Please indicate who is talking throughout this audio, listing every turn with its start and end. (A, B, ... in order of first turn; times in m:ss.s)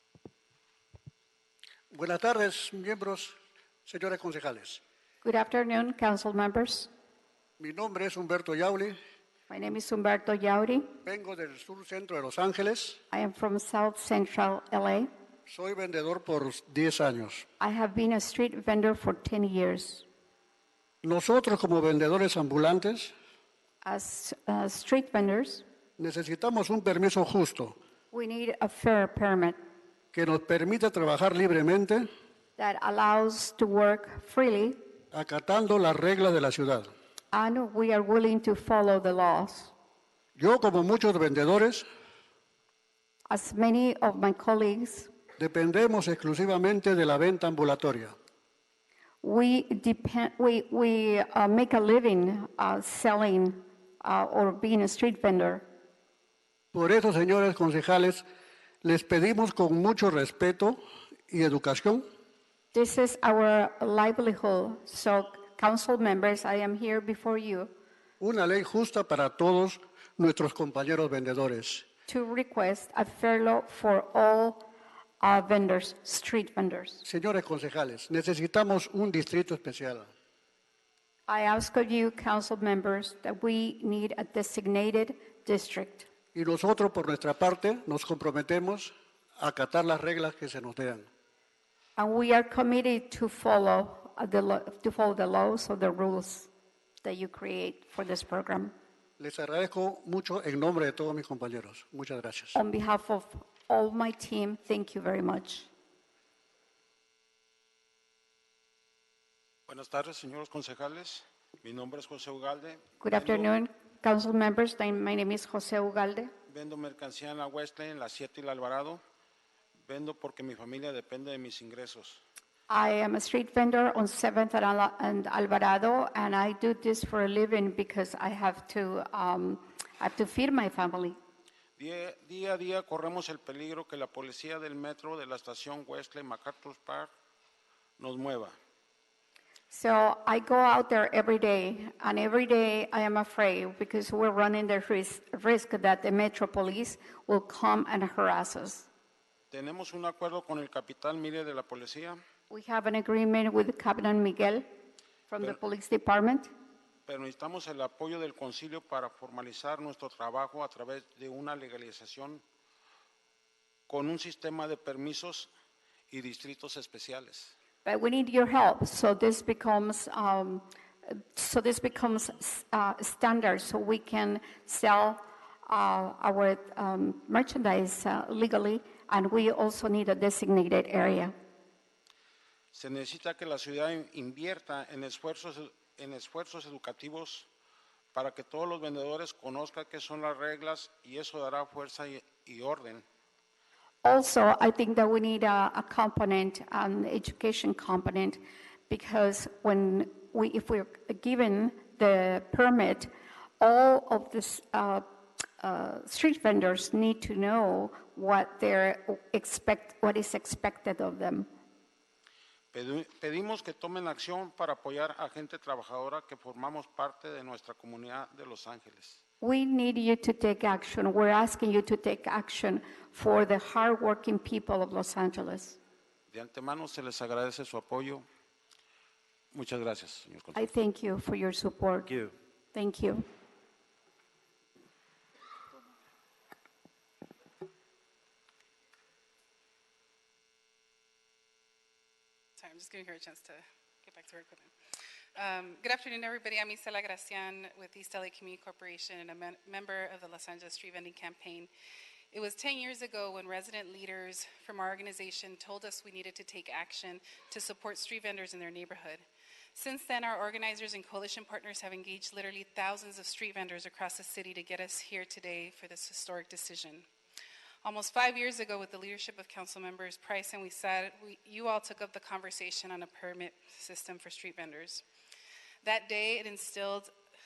0:01.9-0:03.4 A
0:03.9-0:04.8 A
0:05.2-0:06.9 B
0:07.6-0:09.0 A
0:09.5-0:11.0 B
0:11.1-0:13.0 A
0:13.1-0:15.1 B
0:15.5-0:17.4 A
0:17.6-0:20.0 B
0:21.0-0:23.1 A
0:23.8-0:25.6 B
0:26.0-0:27.8 A
0:28.1-0:29.6 B
0:30.1-0:32.1 A
0:32.6-0:34.8 B
0:35.1-0:36.9 A
0:37.3-0:39.7 B
0:40.4-0:41.9 A
0:43.3-0:45.1 B
0:45.4-0:48.1 A
0:49.2-0:55.7 B
0:56.7-0:58.2 A
0:58.8-1:02.1 A
1:02.7-1:07.7 B
1:08.2-1:11.9 A
1:12.1-1:14.7 B
1:15.2-1:17.0 B
1:17.1-1:20.1 A
1:21.3-1:26.1 B
1:26.3-1:31.1 A
1:32.0-1:36.5 B
1:37.0-1:38.7 B
1:39.2-1:42.6 A
1:42.6-1:45.7 B
1:49.7-1:53.5 C
1:53.0-1:56.3 B
1:56.5-1:59.0 C
1:59.8-2:02.2 C
2:02.7-2:11.2 B
2:11.8-2:17.1 C
2:18.0-2:18.6 C
2:19.7-2:28.9 B
2:29.5-2:32.2 C
2:32.5-2:34.7 B
2:35.3-2:36.5 B
2:37.1-2:42.4 C
2:43.9-2:45.5 C
2:46.1-2:47.5 C
2:47.8-3:01.3 B
3:02.7-3:07.5 C
3:08.1-3:13.0 C
3:14.0-3:25.0 B
3:25.6-3:31.5 B
3:32.7-3:39.2 C
3:39.4-3:45.8 B
3:46.3-3:48.3 C
3:49.5-3:50.6 C
3:50.6-3:52.1 B
3:52.7-3:53.2 B
4:02.6-4:04.7 D
4:05.4-4:11.7 D
4:12.3-4:19.2 D
4:19.8-4:27.1 D
4:27.8-4:35.0 D
4:35.8-4:37.1 D